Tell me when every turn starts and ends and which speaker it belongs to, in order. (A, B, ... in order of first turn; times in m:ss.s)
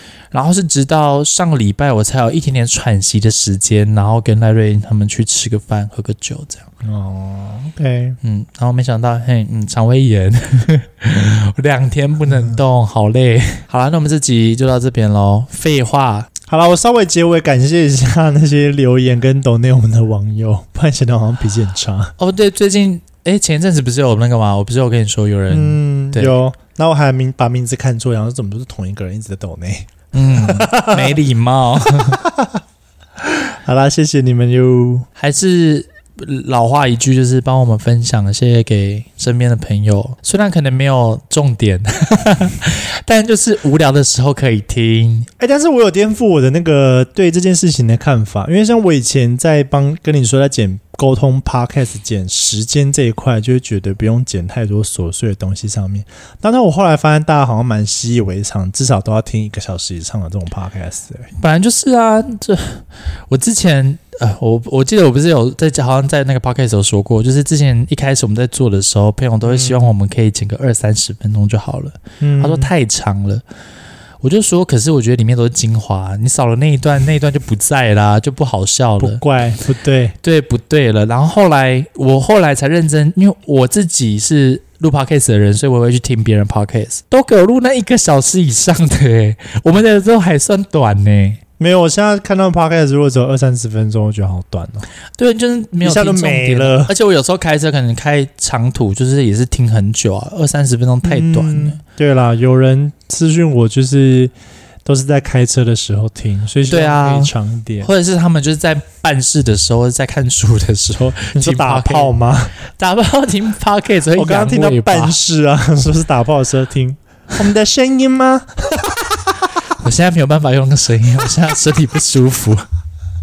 0:00.3-0:06.7 A
0:06.8-0:08.2 B
0:08.2-0:16.3 A
0:16.5-0:22.1 B
0:22.2-0:26.4 A
0:25.5-0:31.2 B
0:30.1-0:32.2 A
0:32.0-0:32.6 B
0:33.2-0:35.1 B
0:35.2-0:45.3 A
0:45.4-1:01.3 B
1:01.4-1:13.4 A
1:09.4-1:09.9 B
1:12.2-1:12.7 B
1:14.2-1:19.2 A
1:19.0-1:20.2 B
1:20.2-1:31.4 A
1:31.6-1:34.9 B
1:35.2-1:41.8 A
1:35.8-1:36.9 B
1:41.0-1:44.3 B
1:44.9-1:47.9 B
1:46.7-1:52.1 A
1:51.3-1:52.6 B
1:52.8-1:55.2 A
1:54.2-1:59.5 B
1:59.8-2:02.6 A